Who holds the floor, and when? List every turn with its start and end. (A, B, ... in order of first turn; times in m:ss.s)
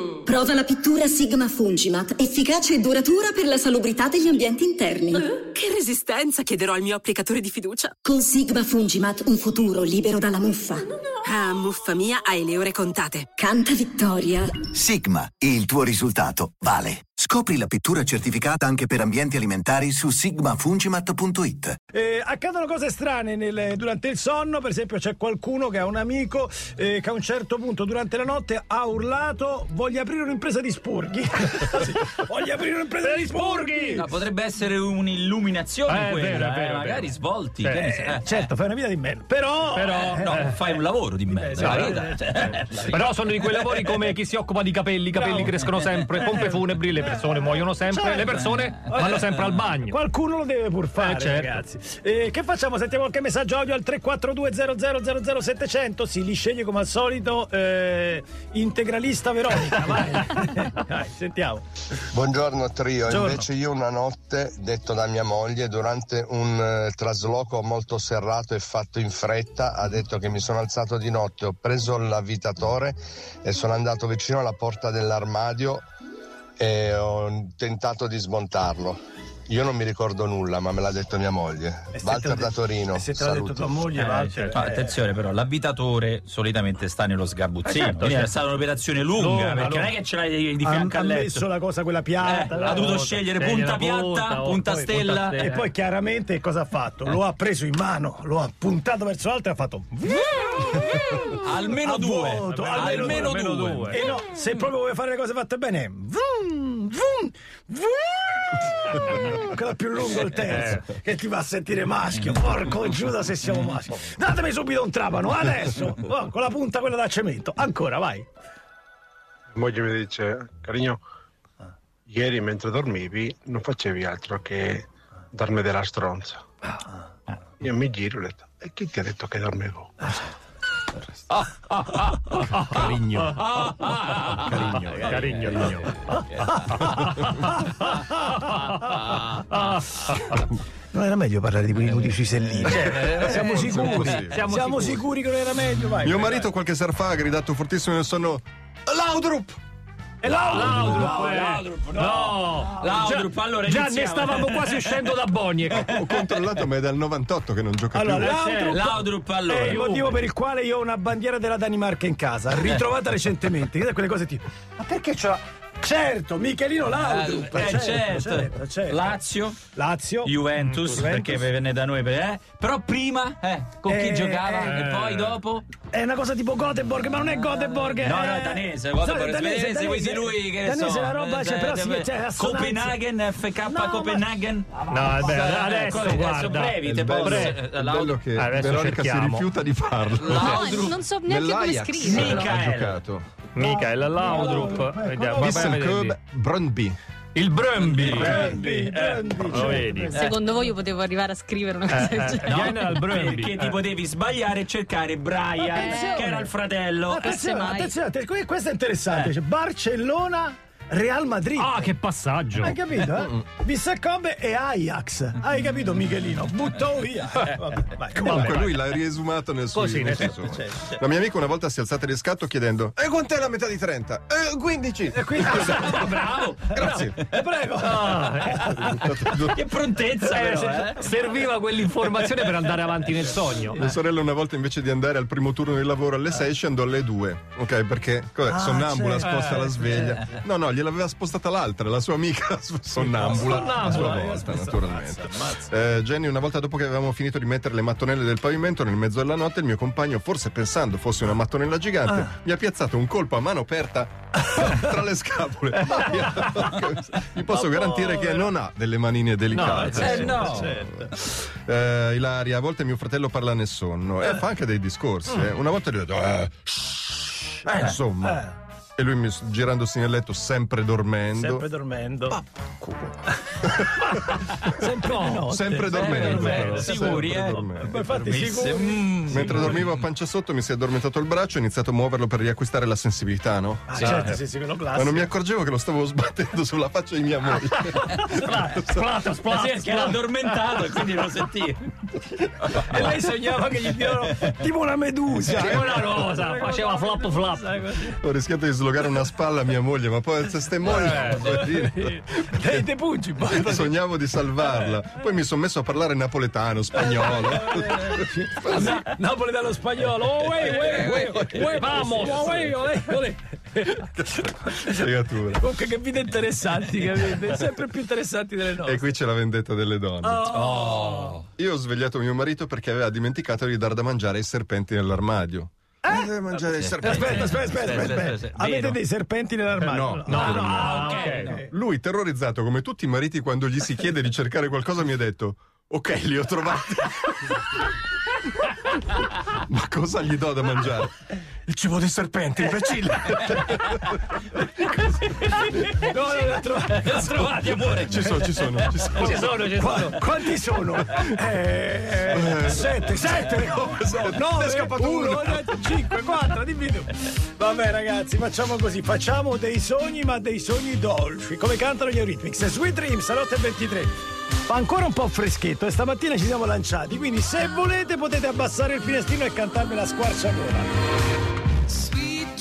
0:00.2-0:05.3 A
0:05.3-0:08.0 B
0:08.0-0:10.9 A
0:11.2-0:13.3 B
0:13.4-0:14.7 A
0:14.8-0:21.8 C
0:21.9-0:34.2 D
0:33.0-0:34.0 E
0:34.0-0:38.3 F
0:35.9-0:38.2 E
0:38.2-0:40.4 D
0:39.7-0:40.6 E
0:40.0-0:43.9 F
0:41.3-0:42.6 D
0:41.6-0:50.0 E
0:45.2-0:45.5 D
0:45.4-0:46.1 F
0:46.3-0:49.2 D
0:48.9-0:49.5 F
0:49.8-1:01.6 D
0:51.0-0:51.6 E
1:02.1-1:15.8 G
1:03.1-1:03.5 D
1:16.6-1:23.6 G
1:21.9-1:25.0 D
1:24.0-1:31.5 F
1:27.7-1:28.4 E
1:29.1-1:29.9 E
1:30.6-1:33.0 D
1:32.2-1:35.4 F
1:32.6-1:35.7 E
1:34.6-1:34.9 D
1:35.4-1:58.3 D
1:40.9-1:44.1 F
1:42.5-1:44.1 E
1:50.5-1:50.8 E
1:59.5-2:01.0 H
2:02.1-2:06.4 H
2:07.6-2:09.9 H
2:12.5-2:13.4 E
2:12.8-2:13.0 I
2:14.2-2:16.1 E
2:19.5-2:20.2 E
2:20.9-2:26.5 D
2:22.9-2:24.4 I
2:24.2-2:25.0 E
2:26.0-2:29.6 I
2:30.2-2:33.0 D
2:30.5-2:35.9 E
2:30.8-2:35.2 F
2:35.7-2:38.3 I
2:35.9-2:36.4 F
2:37.9-2:49.2 D
2:38.3-2:38.8 E
2:38.3-2:39.8 F
2:39.6-2:40.1 E
2:47.0-2:49.6 F
2:49.7-2:51.5 D
2:50.2-2:55.6 F
2:50.6-2:51.0 E
2:53.8-2:55.0 D
2:54.6-2:55.2 E
2:55.9-3:03.0 D
2:57.2-3:08.2 F
3:03.6-3:05.3 D
3:04.9-3:07.6 E
3:06.8-3:13.3 I
3:08.3-3:09.5 E
3:10.2-3:11.1 F
3:10.3-3:10.8 E
3:10.4-3:12.5 J
3:12.0-3:13.0 F
3:13.6-3:16.2 E
3:13.6-3:15.8 D
3:15.4-3:17.0 I
3:17.4-3:18.6 E
3:17.8-3:20.4 F
3:18.0-3:20.4 D
3:19.5-3:20.2 E
3:20.2-3:22.6 J
3:21.9-3:23.8 E
3:22.4-3:27.4 F
3:25.6-3:26.6 D
3:25.8-3:26.2 J
3:27.1-3:31.9 D
3:27.3-3:28.0 J
3:31.6-3:32.8 E
3:32.6-3:38.8 D
3:38.1-3:46.1 I
3:38.2-3:38.5 E
3:39.8-3:40.3 E
3:40.1-3:41.0 D
3:45.1-3:48.6 D
3:45.4-3:48.6 F
3:46.8-3:47.2 I
3:47.8-3:48.8 E
3:48.6-3:49.7 I
3:49.5-3:51.1 F
3:50.3-3:53.8 E
3:52.2-3:52.6 F
3:53.8-4:31.7 I
3:58.5-4:00.2 D
4:03.0-4:05.4 D
4:03.3-4:04.2 E
4:17.5-4:18.5 D
4:19.5-4:21.1 D
4:19.6-4:19.8 E
4:19.8-4:20.8 F
4:28.2-4:28.5 D
4:31.3-4:32.4 D
4:32.8-4:38.1 I
4:34.6-4:39.8 D
4:35.9-4:40.0 F
4:36.4-4:37.1 E
4:39.3-4:44.4 I
4:43.9-4:45.3 D
4:43.9-4:44.3 F
4:44.9-4:49.1 I
4:48.0-4:50.6 E
4:49.4-4:51.9 F
4:52.4-4:58.2 D
4:52.7-4:53.1 F
4:55.5-4:56.0 I
4:55.6-4:57.7 E
4:58.2-5:02.8 I
5:00.8-5:04.0 D
5:01.0-5:01.4 E
5:03.5-5:08.8 I
5:04.6-5:05.0 D
5:07.0-5:14.1 D
5:11.5-5:12.8 E
5:14.2-5:15.6 I
5:14.6-5:19.1 D
5:18.8-5:20.5 I
5:20.2-5:21.3 D
5:20.5-5:21.5 F
5:21.6-5:28.1 I
5:26.0-5:26.4 D
5:26.8-5:29.0 F
5:27.0-5:31.7 D
5:29.8-5:31.0 I
5:30.3-5:31.6 E
5:30.6-5:31.6 F
5:31.7-5:37.6 I
5:39.7-5:41.2 I
5:41.7-5:44.2 I
5:42.7-5:43.0 D
5:45.4-5:47.8 D
5:46.9-5:48.2 F
5:48.1-5:49.6 I
5:49.0-6:04.1 D
5:49.2-5:50.2 E
5:52.3-5:56.0 I
6:04.6-6:10.9 D